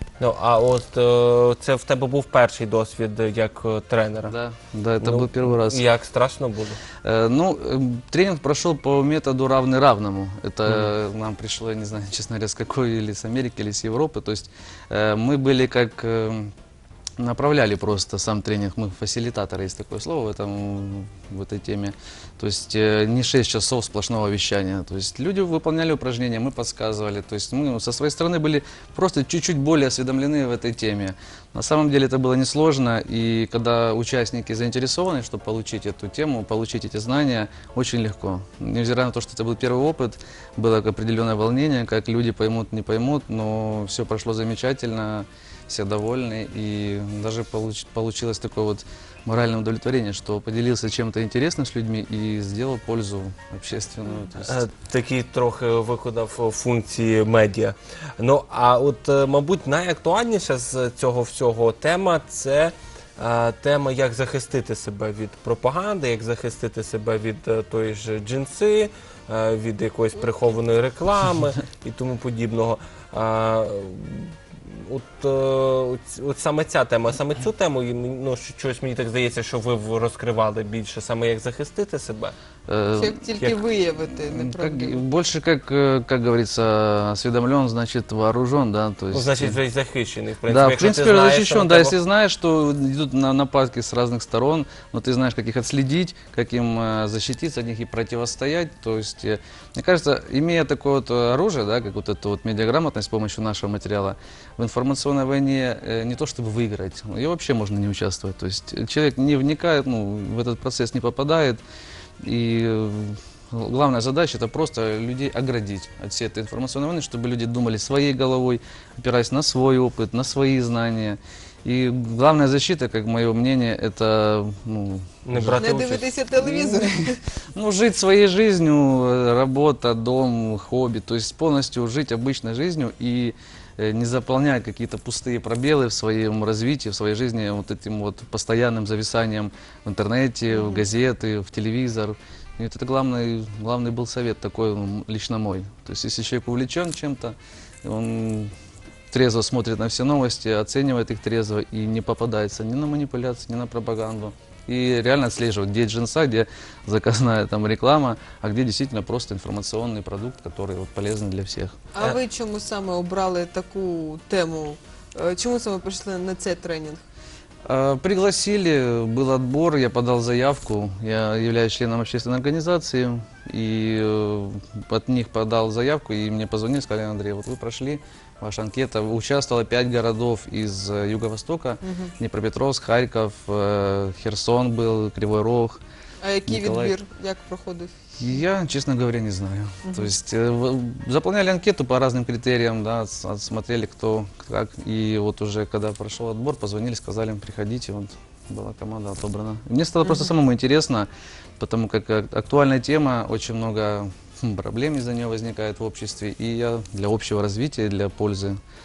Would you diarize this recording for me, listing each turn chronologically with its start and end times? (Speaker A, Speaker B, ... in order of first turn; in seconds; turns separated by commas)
Speaker A: 0.2-4.3, Speaker B: 4.2-5.8, Speaker A: 5.0-6.8, Speaker B: 7.0-16.5, Speaker B: 17.2-54.6, Speaker A: 54.3-82.3, Speaker B: 82.7-89.6, Speaker C: 83.0-85.0, Speaker A: 89.1-92.0, Speaker B: 90.5-111.6, Speaker B: 112.2-125.6, Speaker A: 125.2-126.1, Speaker C: 125.6-127.2, Speaker B: 126.3-148.5, Speaker C: 140.5-140.8, Speaker B: 149.1-161.8, Speaker C: 161.9-167.0, Speaker B: 167.6-185.8, Speaker C: 181.8-182.1, Speaker C: 186.2-187.9, Speaker B: 186.5-186.9, Speaker B: 188.2-208.6, Speaker C: 189.8-190.1